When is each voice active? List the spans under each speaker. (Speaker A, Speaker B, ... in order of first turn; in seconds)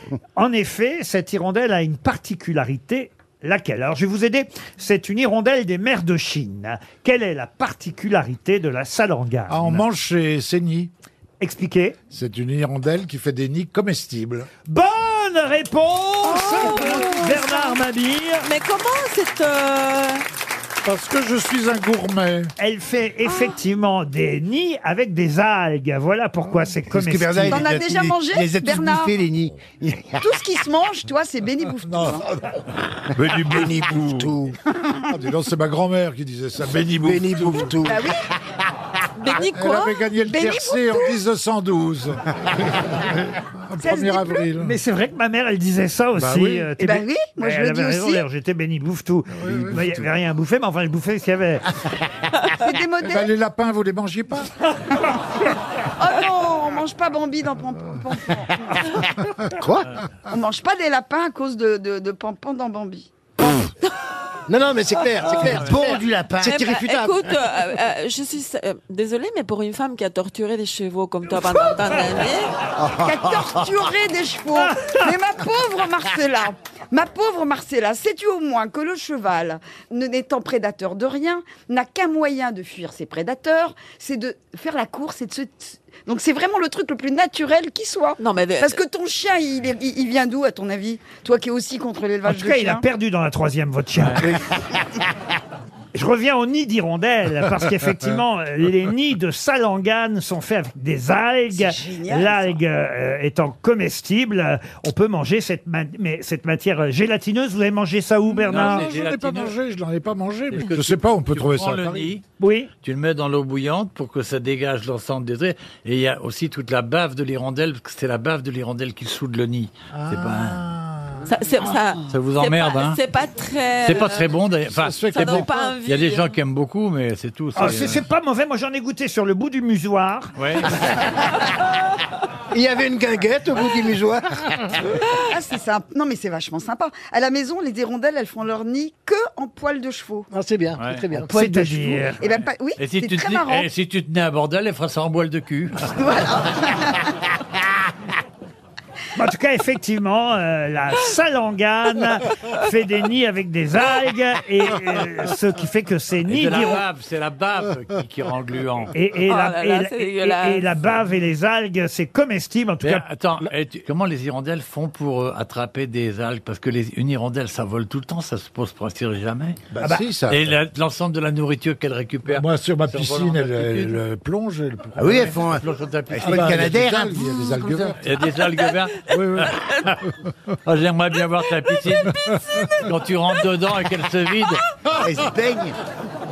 Speaker A: 0.4-9.8, 11.4-12.0, 14.7-18.4, 22.6-27.6, 44.6-51.7, 92.3-94.3, 95.9-108.8, 112.4-112.7, 127.5-130.4, 141.3-142.2, 149.1-156.8, 158.9-163.0
Speaker B: 9.5-10.9, 12.1-14.5, 20.8-22.5, 31.9-32.2, 33.1-34.3, 35.1-37.8, 39.5-44.8, 46.2-46.7, 49.3-50.0, 53.0-54.5, 108.3-112.1, 119.9-121.2, 124.7-125.7, 169.7-170.5, 172.3-175.3, 176.2-178.0, 179.1-179.5
Speaker C: 16.2-17.8, 18.4-20.2, 39.2-40.0, 66.4-72.5, 88.2-88.8, 121.2-124.3, 125.1-126.3, 159.2-160.7
Speaker D: 26.9-30.3, 65.3-66.6, 72.8-73.7, 175.0-177.2, 185.0-185.8
Speaker E: 27.5-29.1, 30.2-32.2, 37.8-38.2, 40.3-41.2, 43.8-44.5, 46.8-48.2, 52.6-53.3, 56.0-58.7, 60.3-63.1, 73.0-92.8, 101.5-102.6, 135.3-140.3, 141.3-143.7, 146.0-147.1
Speaker F: 33.4-34.5, 37.0-38.0, 59.6-59.9, 64.5-67.2, 132.5-134.4, 140.3-141.3
Speaker G: 108.5-109.5, 110.5-112.2, 112.8-120.6, 122.1-123.0, 123.8-128.0, 130.4-130.8, 140.8-141.0, 142.8-145.9, 156.3-158.9, 162.8-169.6, 170.3-174.0, 175.0-176.8, 178.0-180.0, 180.6-182.2, 182.8-184.6